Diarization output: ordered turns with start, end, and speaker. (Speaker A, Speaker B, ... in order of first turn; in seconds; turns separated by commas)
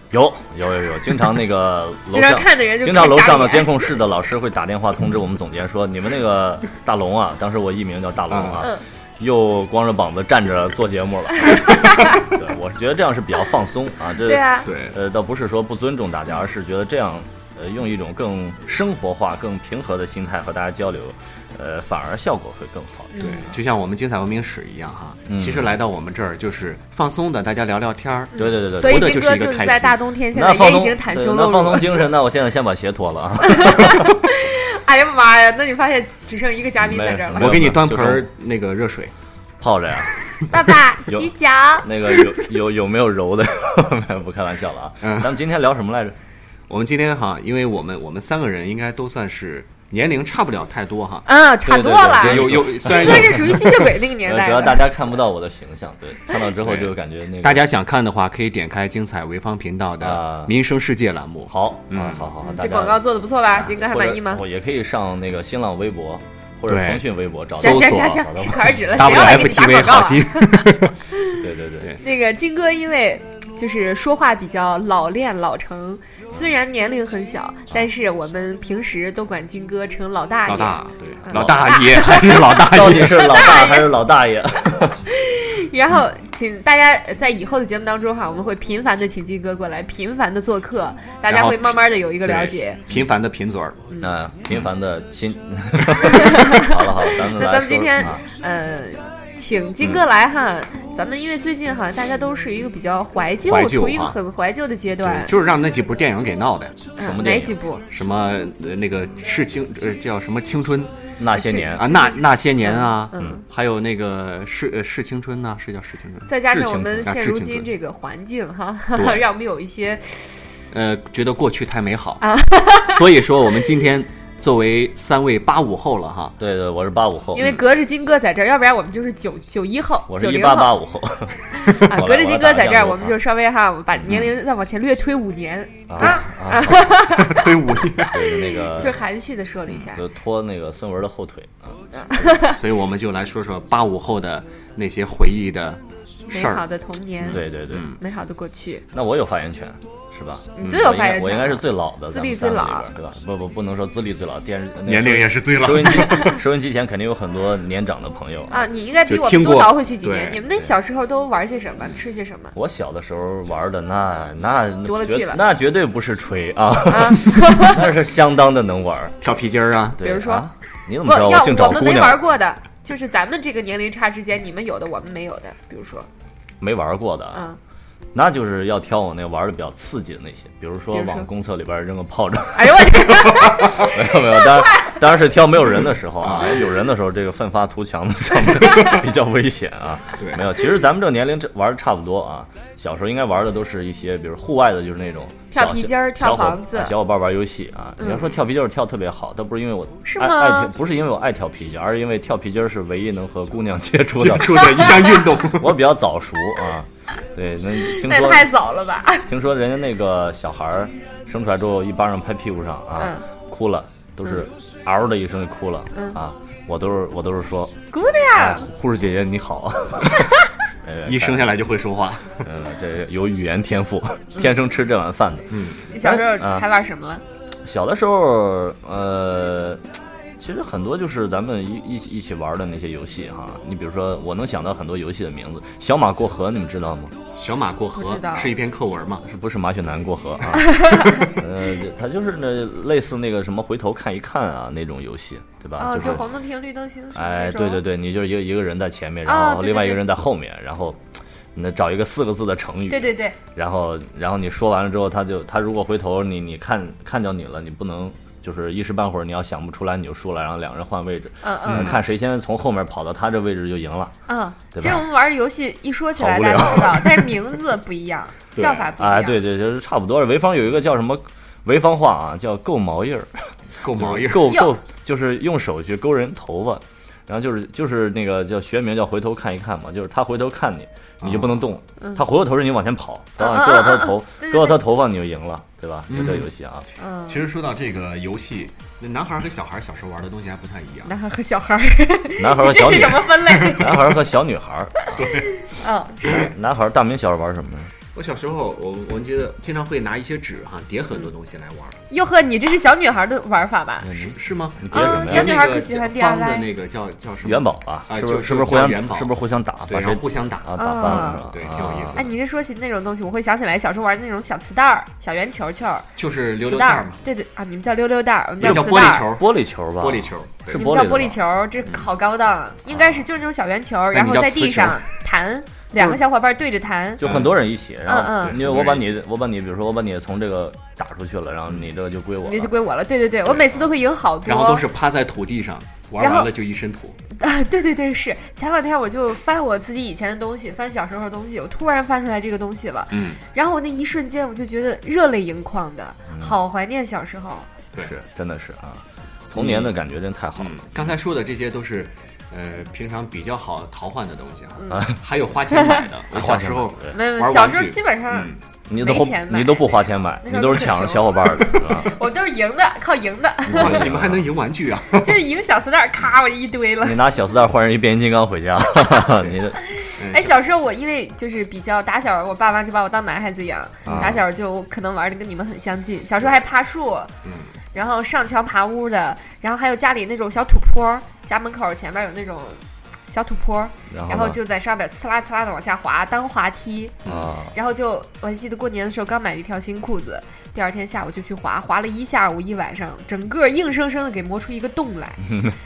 Speaker A: 0.1-23.4, Speaker B: 2.1-4.0, Speaker C: 8.3-8.7, Speaker B: 11.5-12.2, Speaker B: 14.2-14.7, Speaker C: 14.6-15.0, Speaker B: 23.1-23.5, Speaker C: 23.2-30.0, Speaker A: 25.3-25.7, Speaker A: 28.4-29.1, Speaker B: 28.8-32.0, Speaker A: 30.3-34.2, Speaker B: 33.4-37.5, Speaker A: 36.8-38.3, Speaker C: 37.3-39.1, Speaker A: 39.6-40.1, Speaker B: 40.5-42.5, Speaker A: 41.8-46.1, Speaker C: 45.0-45.4, Speaker C: 46.7-51.3, Speaker B: 51.2-54.9, Speaker A: 51.6-53.7, Speaker C: 52.1-53.9, Speaker A: 54.2-57.7, Speaker C: 56.6-62.3, Speaker A: 60.0-60.5, Speaker A: 61.5-69.4, Speaker B: 62.4-64.4, Speaker C: 66.7-70.9, Speaker B: 67.5-71.3, Speaker A: 71.3-72.0, Speaker B: 72.0-83.9, Speaker C: 80.5-83.5, Speaker A: 82.6-85.0, Speaker B: 85.1-92.8, Speaker C: 91.3-93.9, Speaker A: 94.0-98.2, Speaker B: 96.0-105.3, Speaker C: 103.4-104.2, Speaker C: 105.0-106.8, Speaker B: 107.0-107.8, Speaker A: 107.0-107.6, Speaker C: 107.9-111.0, Speaker A: 111.2-112.0, Speaker B: 111.3-113.4, Speaker C: 111.7-117.7, Speaker B: 116.3-120.5, Speaker A: 116.5-117.1, Speaker C: 120.7-126.3, Speaker B: 122.2-123.0, Speaker A: 126.4-127.5, Speaker B: 127.3-130.8, Speaker C: 127.4-127.6, Speaker A: 130.1-133.2, Speaker B: 131.5-137.5, Speaker A: 135.9-137.0, Speaker C: 136.0-136.2, Speaker C: 136.9-138.3, Speaker A: 138.1-139.0, Speaker B: 138.7-140.0, Speaker A: 139.8-141.8, Speaker B: 141.9-142.6, Speaker C: 142.3-146.7, Speaker B: 146.3-147.4, Speaker C: 147.2-148.0, Speaker A: 147.2-147.9, Speaker B: 148.0-148.8, Speaker A: 148.9-158.6, Speaker B: 150.6-152.9, Speaker C: 154.8-156.4, Speaker B: 158.5-162.6, Speaker C: 159.1-160.4, Speaker A: 162.5-169.3, Speaker B: 164.8-165.4, Speaker B: 166.9-167.9, Speaker C: 169.2-170.1, Speaker A: 170.0-172.2, Speaker B: 170.0-170.5, Speaker B: 171.0-176.1, Speaker A: 176.6-177.4, Speaker B: 177.3-177.6, Speaker A: 178.1-208.5, Speaker B: 180.9-181.3, Speaker B: 182.5-184.9, Speaker C: 186.2-186.6, Speaker C: 190.2-190.6, Speaker B: 195.5-196.9, Speaker B: 198.0-198.3, Speaker B: 200.0-200.7, Speaker C: 204.2-205.8, Speaker B: 204.8-205.3, Speaker B: 207.7-209.3, Speaker A: 209.3-217.8, Speaker B: 213.0-213.2, Speaker B: 215.9-216.2, Speaker B: 217.9-218.6, Speaker A: 218.3-221.6, Speaker C: 221.1-222.5, Speaker A: 222.4-226.7, Speaker C: 225.5-225.9, Speaker B: 225.9-227.2, Speaker A: 227.6-229.8, Speaker A: 230.4-237.2, Speaker C: 237.3-239.2, Speaker B: 237.9-238.5, Speaker A: 239.2-246.2, Speaker B: 240.6-241.2, Speaker B: 245.8-247.8, Speaker A: 247.1-251.0, Speaker B: 249.2-250.1, Speaker A: 251.5-264.1, Speaker B: 252.9-253.4, Speaker B: 261.4-262.0, Speaker C: 261.6-262.0, Speaker B: 264.3-269.4, Speaker A: 264.7-265.0, Speaker A: 266.2-267.3, Speaker C: 268.6-268.9, Speaker A: 269.0-273.3, Speaker C: 273.8-274.6, Speaker A: 273.8-286.8, Speaker B: 274.4-274.8, Speaker C: 281.2-281.7, Speaker B: 283.4-284.8, Speaker C: 286.1-286.5, Speaker B: 287.0-287.4, Speaker C: 287.2-291.2, Speaker B: 291.1-294.0, Speaker A: 292.4-295.2, Speaker B: 295.1-296.4, Speaker C: 295.1-295.5, Speaker A: 296.4-297.9, Speaker C: 298.1-302.0, Speaker B: 302.1-304.1, Speaker A: 304.0-305.6, Speaker C: 304.1-309.3, Speaker B: 304.9-306.6, Speaker A: 307.4-312.2, Speaker C: 309.9-312.3, Speaker B: 310.8-311.4, Speaker B: 312.1-316.1, Speaker C: 316.1-317.2, Speaker B: 316.6-319.3, Speaker C: 318.6-320.9, Speaker A: 318.6-321.4, Speaker B: 320.7-327.2, Speaker C: 324.1-325.1, Speaker C: 327.2-327.6, Speaker A: 327.2-332.7, Speaker B: 328.1-328.6, Speaker C: 328.2-329.1, Speaker B: 332.4-334.9, Speaker C: 333.4-333.9, Speaker C: 334.4-337.2, Speaker B: 336.2-336.5, Speaker B: 337.4-347.7, Speaker C: 343.1-343.4, Speaker A: 348.0-351.1, Speaker C: 349.5-349.9, Speaker C: 350.6-358.6, Speaker B: 354.8-355.1, Speaker A: 354.9-355.1, Speaker B: 355.7-356.0, Speaker A: 356.3-357.1, Speaker B: 357.1-364.1, Speaker A: 358.9-362.1, Speaker C: 363.6-365.4, Speaker A: 363.7-364.5, Speaker B: 365.1-367.2, Speaker A: 367.0-369.8, Speaker C: 369.3-369.6, Speaker B: 369.8-377.3, Speaker C: 370.2-370.6, Speaker A: 374.0-374.4, Speaker C: 374.1-374.4, Speaker C: 377.4-377.7, Speaker B: 377.9-387.2, Speaker A: 384.1-384.6, Speaker C: 387.2-387.5, Speaker A: 387.3-387.7, Speaker B: 387.7-395.5, Speaker A: 395.4-395.8